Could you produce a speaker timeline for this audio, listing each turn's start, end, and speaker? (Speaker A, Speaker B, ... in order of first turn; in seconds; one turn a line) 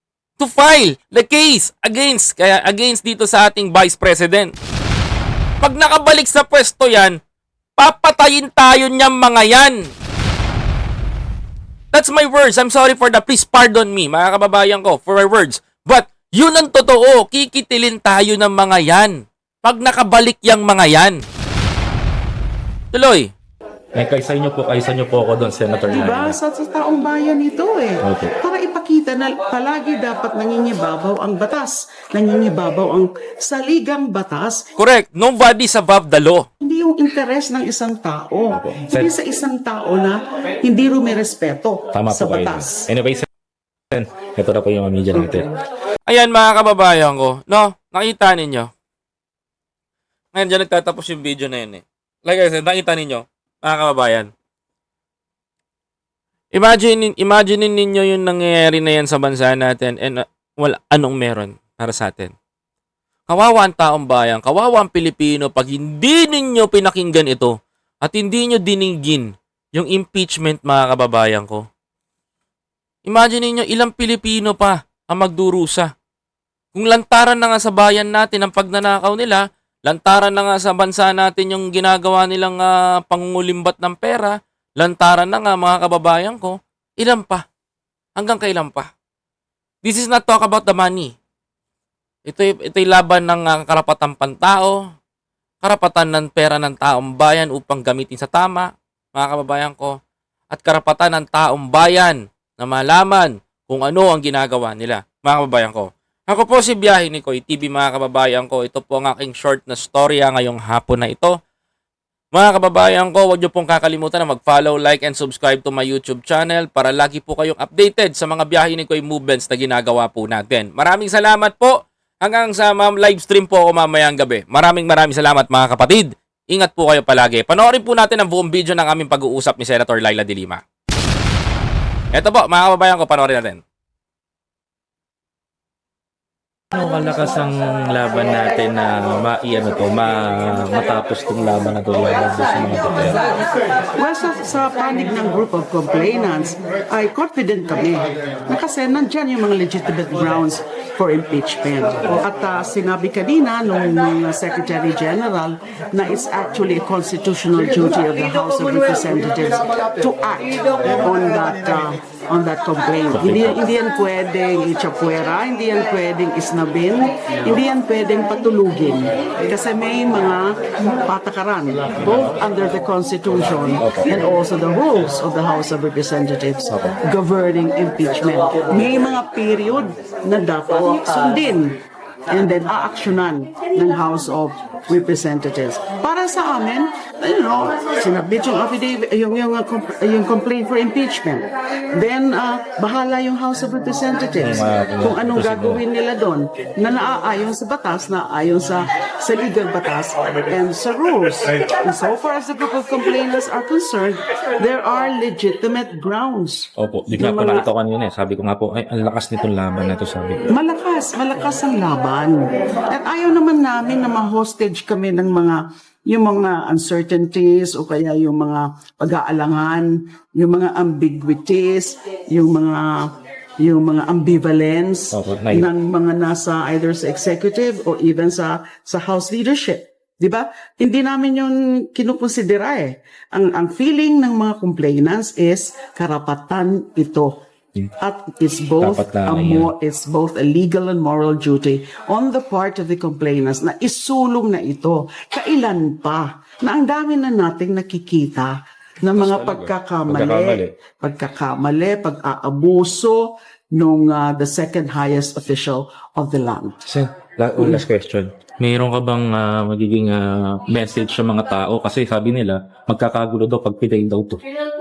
Speaker A: 0.4-4.5
Speaker A: 5.6-7.2
Speaker A: 7.8-9.9
Speaker A: 11.9-21.2
Speaker A: 22.9-23.3
Speaker B: 23.9-26.4
Speaker C: 25.9-34.7
Speaker B: 28.0-28.3
Speaker A: 34.8-36.5
Speaker C: 36.6-42.9
Speaker B: 38.5-39.1
Speaker B: 41.9-43.3
Speaker B: 43.9-45.5
Speaker A: 46.1-48.7
Speaker A: 50.3-54.3
Speaker A: 56.5-62.3
Speaker A: 63.3-71.6
Speaker A: 73.1-75.9
Speaker A: 76.7-87.4
Speaker A: 88.2-88.9
Speaker A: 89.8-91.1
Speaker A: 92.3-94.8
Speaker A: 95.6-100.0
Speaker A: 100.5-111.4
Speaker A: 112.3-130.6
Speaker A: 132.1-133.6
Speaker B: 136.7-143.2
Speaker C: 144.0-207.7
Speaker B: 163.1-163.7
Speaker B: 173.8-174.2
Speaker B: 176.7-177.0
Speaker B: 194.4-195.8
Speaker B: 206.8-210.5
Speaker C: 210.5-237.4
Speaker B: 225.1-225.7
Speaker C: 238.0-256.8
Speaker B: 238.8-239.7
Speaker B: 249.2-250.7
Speaker B: 256.9-264.4
Speaker C: 257.6-257.8